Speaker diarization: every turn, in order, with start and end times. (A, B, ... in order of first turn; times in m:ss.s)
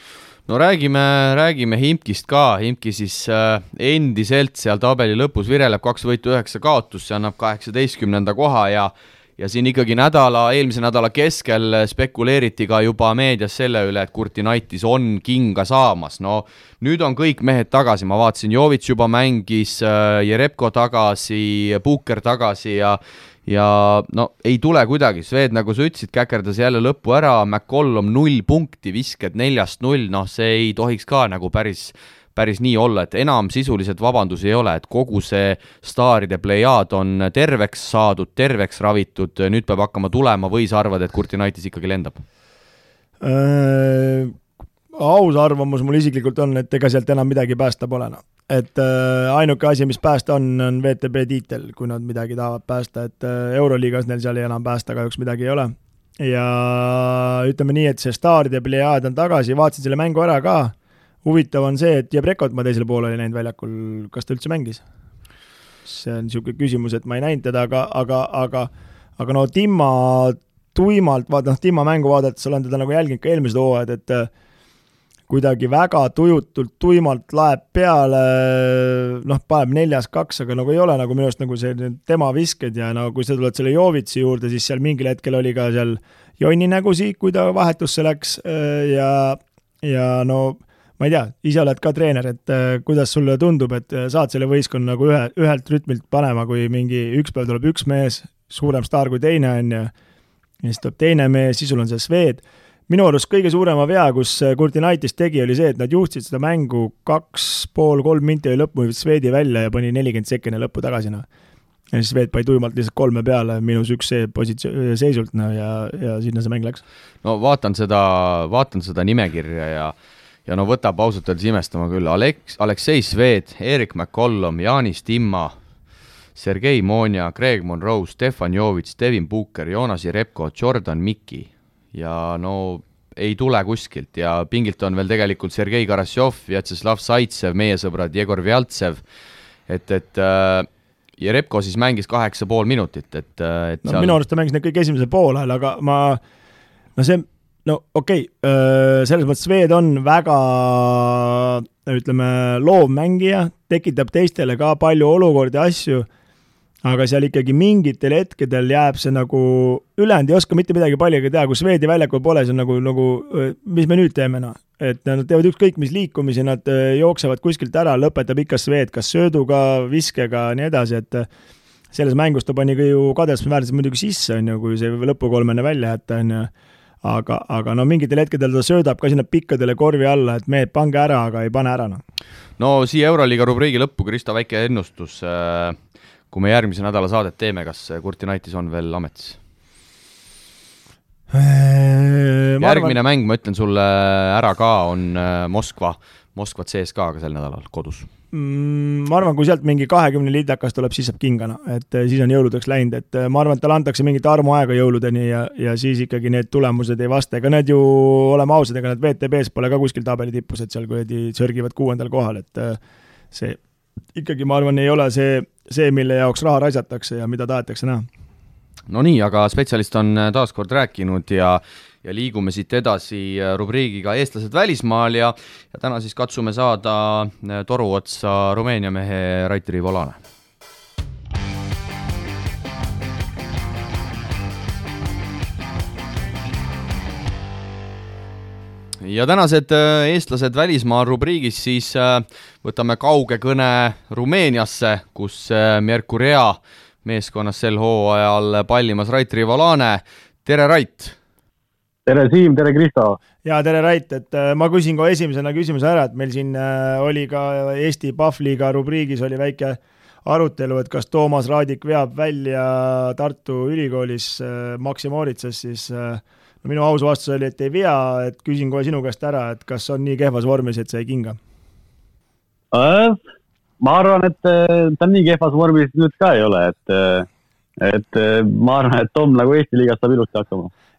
0:00.5-0:42.2 A
0:43.2-0:44.3 B
0:45.0-1:04.8 B
1:05.8-1:14.3 B
1:15.3-1:39.9 B
1:40.6-1:51.3 B
1:51.9-1:56.8 B
1:57.2-1:59.9 A
2:00.5-2:05.5 A
2:06.4-2:19.0 A
2:19.7-2:24.2 A
2:23.8-2:26.2 B
2:27.0-2:36.1 B
2:36.8-2:51.3 B
2:51.9-2:56.5 B
2:57.0-3:02.0 B
3:02.6-3:05.8 A
3:06.3-3:09.4 A
3:11.3-3:13.0 B
3:12.6-3:18.1 A
3:18.3-3:32.8 B
3:33.3-3:33.6 B
3:34.2-3:38.1 B
3:38.9-3:50.2 A
3:59.0-4:11.2 A
4:12.1-4:13.2 C
4:13.4-4:31.4 B
4:32.7-4:33.2 C
4:33.8-4:37.3 C
4:37.8-4:40.7 C